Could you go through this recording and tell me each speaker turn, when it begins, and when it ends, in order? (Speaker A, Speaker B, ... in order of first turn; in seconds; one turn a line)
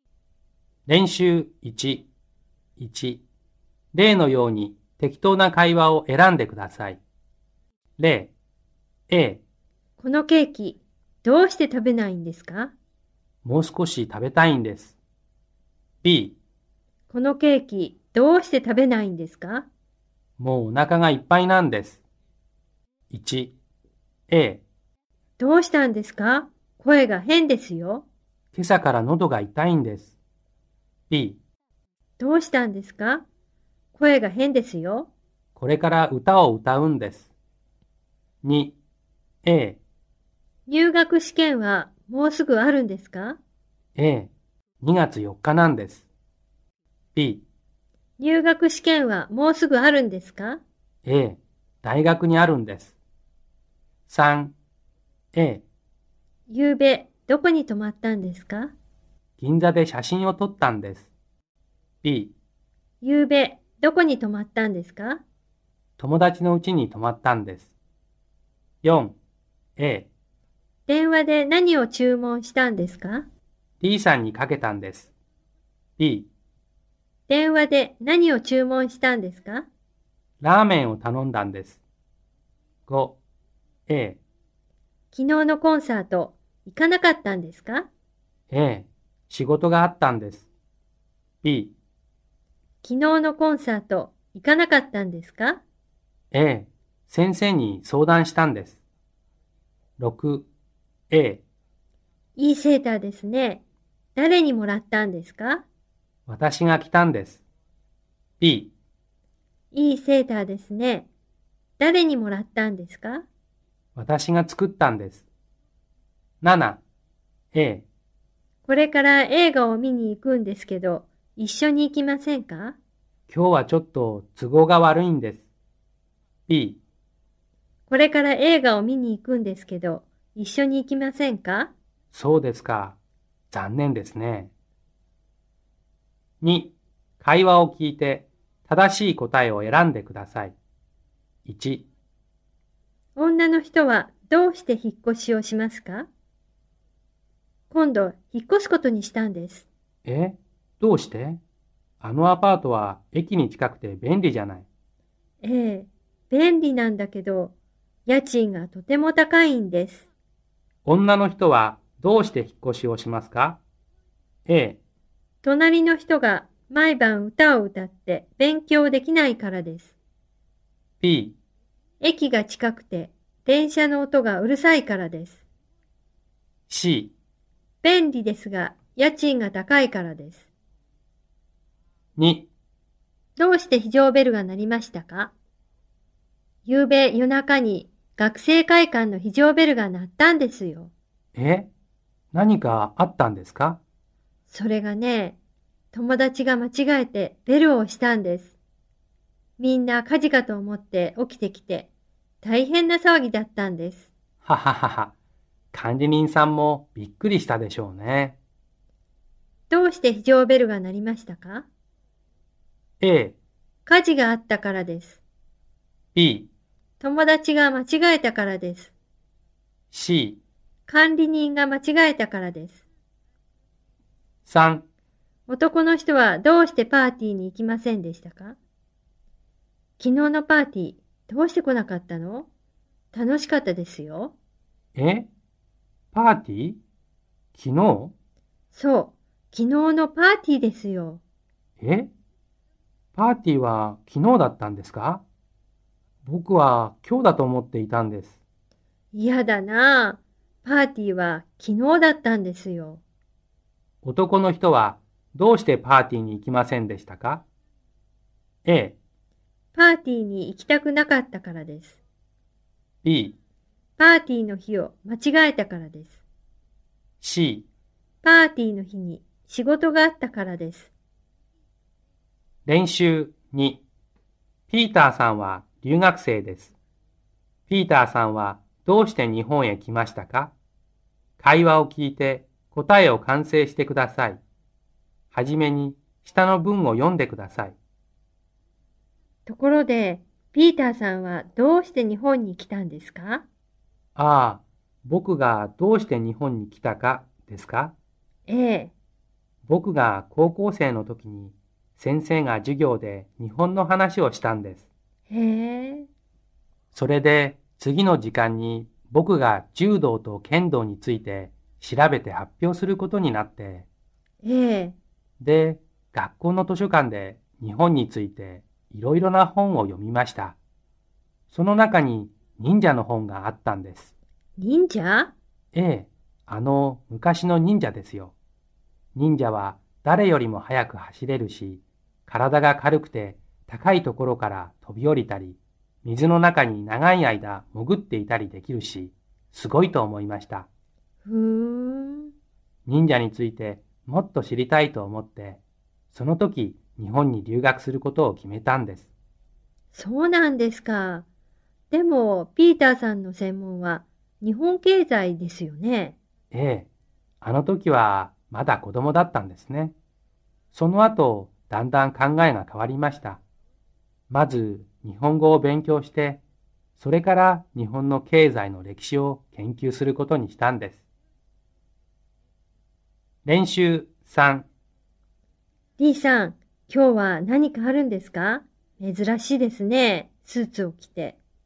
Speaker A: 0.9-2.1
Speaker A: 2.8-3.2
Speaker A: 3.9-7.0
Speaker A: 8.0-8.3
Speaker A: 9.1-9.4
Speaker B: 10.0-12.7
Speaker A: 13.4-15.0
Speaker A: 16.0-16.4
Speaker B: 17.1-19.7
Speaker A: 20.4-22.0
Speaker A: 23.1-23.5
Speaker A: 24.3-24.6
Speaker B: 25.4-28.1
Speaker A: 28.5-30.1
Speaker A: 31.1-31.4
Speaker B: 32.2-33.2
Speaker B: 34.0-35.1
Speaker A: 35.5-37.3
Speaker A: 38.4-38.8
Speaker A: 39.4-39.8
Speaker B: 40.7-43.4
Speaker A: 44.0-46.1
Speaker A: 47.1-47.4
Speaker B: 48.2-50.6
Speaker A: 51.0-53.0
Speaker A: 54.1-54.5
Speaker A: 55.3-55.6
Speaker B: 56.5-58.7
Speaker A: 59.4-61.1
Speaker A: 62.0-62.3
Speaker B: 63.0-65.2
Speaker A: 66.0-67.7
Speaker A: 68.8-69.2
Speaker A: 69.8-70.1
Speaker B: 70.9-73.3
Speaker A: 73.8-75.1
Speaker A: 76.0-76.3
Speaker B: 77.3-79.7
Speaker A: 80.4-81.8
Speaker A: 82.9-83.2
Speaker A: 83.9-84.2
Speaker B: 85.1-87.9
Speaker A: 88.5-90.5
Speaker A: 91.4-91.7
Speaker B: 92.8-95.6
Speaker A: 96.3-98.8
Speaker A: 100.0-100.5
Speaker A: 101.1-101.4
Speaker B: 102.4-103.6
Speaker B: 104.2-105.6
Speaker A: 106.3-107.4
Speaker A: 108.4-108.7
Speaker B: 109.7-111.1
Speaker B: 111.8-113.2
Speaker A: 114.0-115.2
Speaker A: 116.4-116.8
Speaker A: 117.5-117.8
Speaker B: 118.7-122.8
Speaker A: 123.3-125.5
Speaker A: 126.5-126.8
Speaker B: 127.9-131.7
Speaker A: 132.1-133.0
Speaker A: 133.5-134.5
Speaker A: 136.4-140.6
Speaker A: 141.4-141.9
Speaker B: 143.2-146.1
Speaker B: 147.7-149.7
Speaker A: 150.1-151.4
Speaker A: 152.0-154.7
Speaker B: 155.4-157.5
Speaker B: 158.1-160.1
Speaker A: 160.8-163.6
Speaker A: 164.5-164.8
Speaker B: 165.4-169.9
Speaker A: 171.0-171.4
Speaker B: 172.0-175.4
Speaker A: 176.7-177.1
Speaker B: 177.8-180.5
Speaker A: 182.2-182.5
Speaker B: 183.4-185.3
Speaker B: 186.7-190.9
Speaker A: 191.3-191.7
Speaker A: 192.3-193.8
Speaker B: 194.5-195.4
Speaker B: 195.9-198.6
Speaker B: 199.6-201.9
Speaker B: 202.4-204.1
Speaker A: 204.4-205.1
Speaker A: 205.7-208.4
Speaker B: 209.7-211.7
Speaker A: 213.0-213.4
Speaker B: 213.9-215.2
Speaker A: 216.2-216.5
Speaker B: 217.0-218.9
Speaker A: 219.9-220.4
Speaker B: 220.9-222.8
Speaker A: 224.5-224.8
Speaker B: 225.5-228.6
Speaker B: 230.0-232.5
Speaker B: 233.1-234.3
Speaker A: 235.0-235.3
Speaker A: 236.1-236.8
Speaker A: 237.6-238.1
Speaker B: 238.7-241.2
Speaker A: 241.8-242.1
Speaker A: 243.2-245.2
Speaker A: 246.2-248.4
Speaker B: 249.1-253.0
Speaker A: 254.0-257.4
Speaker A: 258.6-259.0
Speaker B: 259.7-262.0
Speaker A: 263.0-263.4
Speaker B: 264.0-266.2
Speaker A: 267.2-267.7
Speaker B: 268.2-270.9
Speaker A: 272.6-273.8
Speaker A: 274.7-276.7
Speaker A: 277.7-280.5
Speaker A: 281.4-284.4
Speaker A: 285.3-287.8
Speaker B: 289.4-293.4
Speaker A: 294.1-297.9
Speaker B: 298.5-298.9
Speaker A: 299.6-304.9
Speaker B: 305.3-306.1
Speaker A: 306.9-313.9
Speaker B: 314.4-314.9
Speaker A: 315.4-320.6
Speaker A: 321.5-324.1
Speaker B: 324.6-325.3
Speaker A: 325.7-328.3
Speaker A: 329.1-340.7
Speaker B: 341.2-342.3
Speaker A: 342.9-345.6
Speaker A: 346.1-349.1
Speaker B: 349.9-351.2
Speaker B: 351.9-356.2
Speaker A: 356.5-356.9
Speaker A: 357.4-359.9
Speaker A: 360.7-363.4
Speaker A: 364.3-366.4
Speaker A: 367.0-371.0
Speaker A: 373.4-374.6
Speaker B: 376.0-381.4